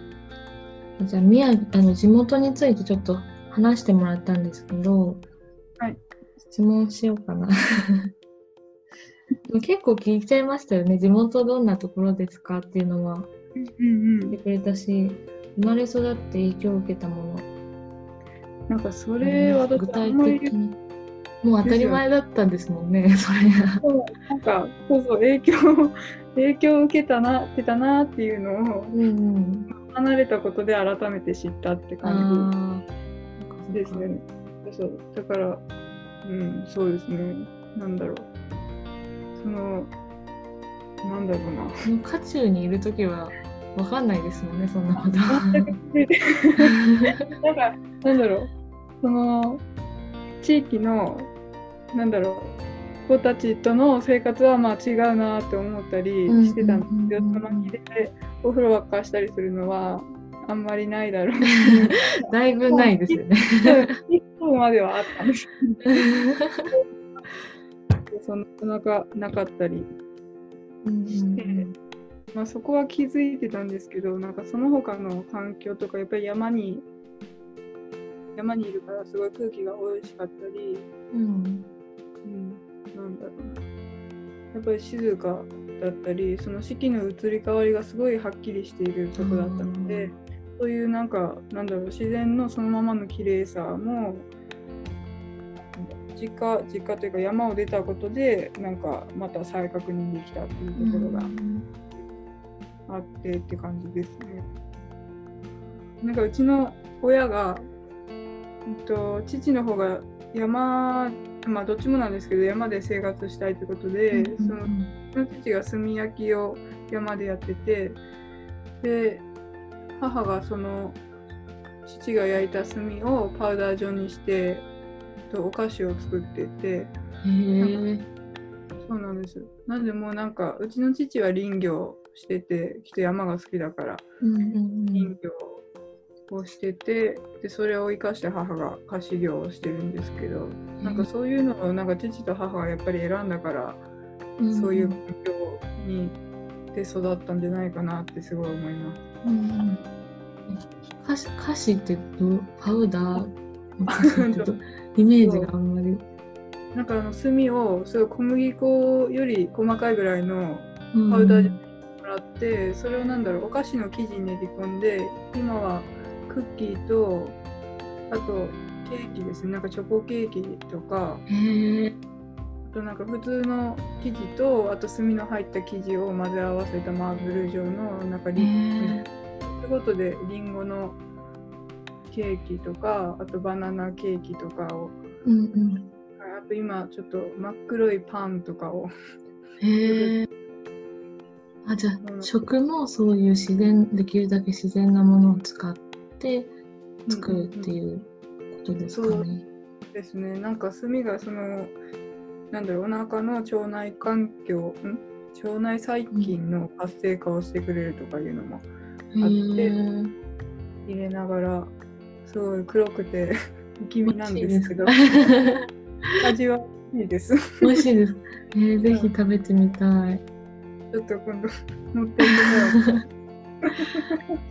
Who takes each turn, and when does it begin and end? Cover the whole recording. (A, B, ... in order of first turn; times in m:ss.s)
0:01.0-0:05.2 A
0:06.5-0:08.1 A
0:09.5-0:13.3 A
0:13.6-0:14.4 B
0:14.3-0:17.5 A
0:18.7-0:20.5 B
0:19.2-0:20.8 A
0:21.4-0:23.8 A
0:21.6-0:22.0 B
0:23.8-0:29.0 B
0:28.9-0:29.7 A
0:29.7-0:32.5 B
0:32.0-0:32.9 A
0:33.4-0:34.1 A
0:33.7-0:35.6 B
0:36.2-0:38.3 B
0:39.4-0:39.9 B
0:41.0-0:41.8 B
0:41.8-0:45.7 A
0:45.0-0:48.5 B
0:46.8-0:47.3 A
0:49.0-0:49.6 B
0:50.4-0:51.3 B
0:51.9-1:02.0 B
0:56.3-0:57.7 A
1:01.5-1:04.0 A
1:02.7-1:06.1 B
1:05.8-1:06.7 A
1:08.1-1:09.9 B
1:10.8-1:11.7 A
1:11.4-1:11.6 B
1:12.3-1:16.8 B
1:18.4-1:20.8 B
1:21.1-1:21.7 A
1:22.2-1:23.6 B
1:24.5-1:34.3 B
1:29.2-1:30.2 A
1:35.8-1:41.3 B
1:40.8-1:41.6 A
1:42.9-1:44.4 B
1:46.0-1:47.6 B
1:48.6-1:58.0 B
1:54.1-1:54.9 A
1:58.8-1:59.2 B
2:00.0-2:01.0 B
2:01.8-2:04.7 B
2:05.3-2:06.9 B
2:07.2-2:08.0 A
2:08.8-2:14.0 B
2:14.2-2:15.1 A
2:14.9-2:15.6 B
2:16.3-2:23.8 B
2:20.8-2:21.1 A
2:24.4-2:25.0 A
2:24.5-2:26.2 B
2:26.7-2:29.0 B
2:29.2-2:29.8 A
2:30.5-2:36.0 A
2:33.9-2:34.6 B
2:35.2-2:35.5 B
2:36.7-2:47.4 B
2:40.9-2:41.6 A
2:48.1-2:51.2 B
2:51.3-2:52.0 A
2:52.6-3:01.0 B
2:58.4-2:59.1 A
3:02.1-3:05.0 B
3:05.2-3:05.9 A
3:06.2-3:08.9 B
3:09.6-3:10.3 A
3:09.8-3:10.1 B
3:11.6-3:16.5 A
3:12.0-3:12.3 B
3:17.1-3:17.8 B
3:17.1-3:19.4 A
3:18.9-3:19.3 B
3:19.9-3:21.7 B
3:22.5-3:28.6 B
3:29.1-3:30.1 A
3:29.2-3:29.7 B
3:30.8-3:31.7 B
3:32.2-3:35.1 B
3:34.0-3:36.2 A
3:36.2-3:37.8 B
3:37.6-3:40.2 A
3:38.8-3:39.1 B
3:40.9-3:42.8 B
3:42.3-3:43.0 A
3:43.6-3:44.4 B